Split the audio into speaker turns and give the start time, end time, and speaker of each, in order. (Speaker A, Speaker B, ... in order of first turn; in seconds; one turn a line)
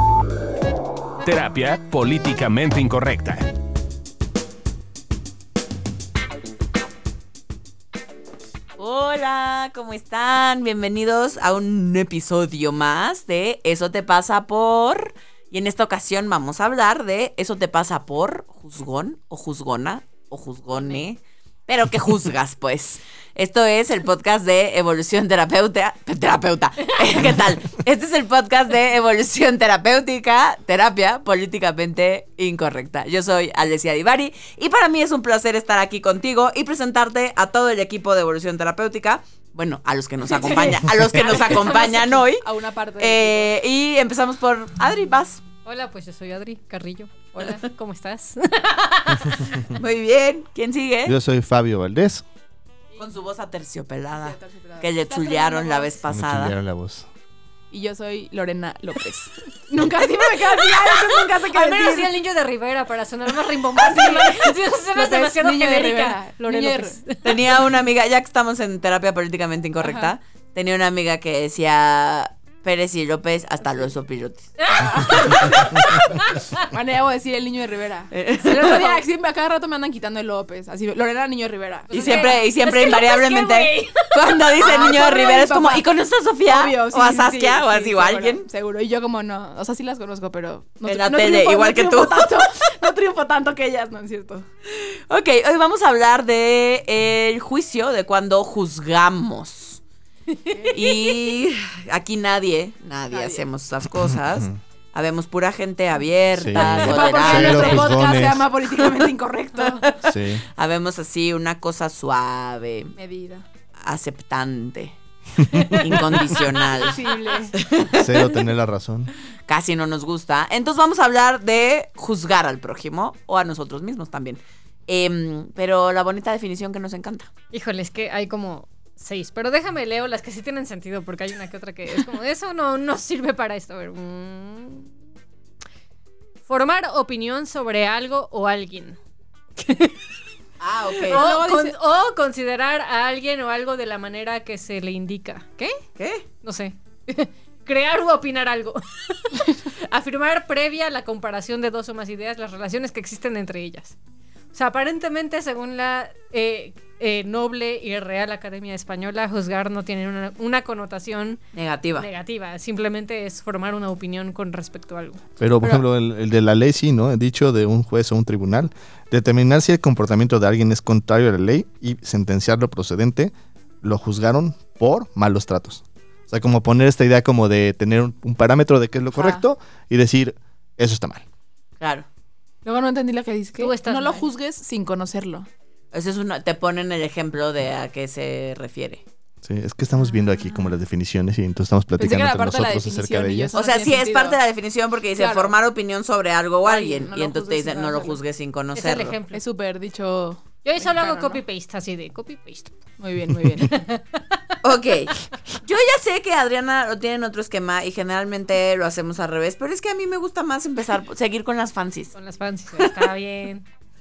Speaker A: 1.2-3.5
Speaker B: 8.8-42.5
Speaker C: 40.3-43.5
Speaker D: 40.3-42.2
Speaker E: 40.9-41.2
Speaker B: 43.0-45.4
Speaker D: 45.6-49.6
Speaker B: 49.7-51.2
Speaker E: 51.1-52.2
Speaker B: 53.0-56.6
Speaker C: 54.2-56.0
Speaker E: 56.1-57.1
Speaker C: 57.7-62.1
Speaker D: 61.4-67.4
Speaker C: 63.8-67.0
Speaker B: 67.2-74.6
Speaker C: 69.8-70.1
Speaker D: 74.6-76.7
Speaker C: 74.8-76.0
Speaker C: 76.6-82.3
Speaker B: 78.1-79.0
Speaker D: 81.9-84.5
Speaker B: 81.9-88.5
Speaker C: 84.5-85.8
Speaker C: 86.5-94.5
Speaker B: 90.9-92.4
Speaker B: 94.7-99.8
Speaker C: 100.5-100.9
Speaker B: 100.7-107.9
Speaker C: 103.1-103.4
Speaker E: 103.9-104.6
Speaker E: 106.3-108.5
Speaker C: 106.6-109.8
Speaker B: 108.8-109.1
Speaker B: 109.7-112.9
Speaker E: 110.0-110.4
Speaker C: 113.0-113.5
Speaker B: 113.8-115.0
Speaker D: 115.5-116.0
Speaker B: 115.7-117.0
Speaker C: 116.8-117.5
Speaker B: 117.5-118.4
Speaker E: 117.9-119.1
Speaker B: 119.5-127.3
Speaker D: 127.5-134.9
Speaker D: 136.5-139.0
Speaker D: 139.6-140.0
Speaker B: 140.6-141.3
Speaker C: 141.0-141.8
Speaker D: 141.1-145.8
Speaker B: 146.0-146.2
Speaker D: 146.4-154.0
Speaker D: 154.5-161.4
Speaker B: 161.5-162.1
Speaker D: 162.0-165.2
Speaker E: 165.4-181.2
Speaker C: 179.1-179.4
Speaker B: 181.8-182.1
Speaker C: 182.7-185.5
Speaker D: 183.6-184.3
Speaker B: 185.9-189.0
Speaker E: 189.4-193.5
Speaker C: 192.0-194.4
Speaker B: 193.5-199.2
Speaker C: 195.2-195.5
Speaker C: 196.6-198.2
Speaker D: 198.8-199.4
Speaker C: 199.3-201.4
Speaker D: 200.6-202.7
Speaker C: 203.0-203.8
Speaker D: 203.6-204.5
Speaker B: 204.6-212.1
Speaker D: 212.1-213.7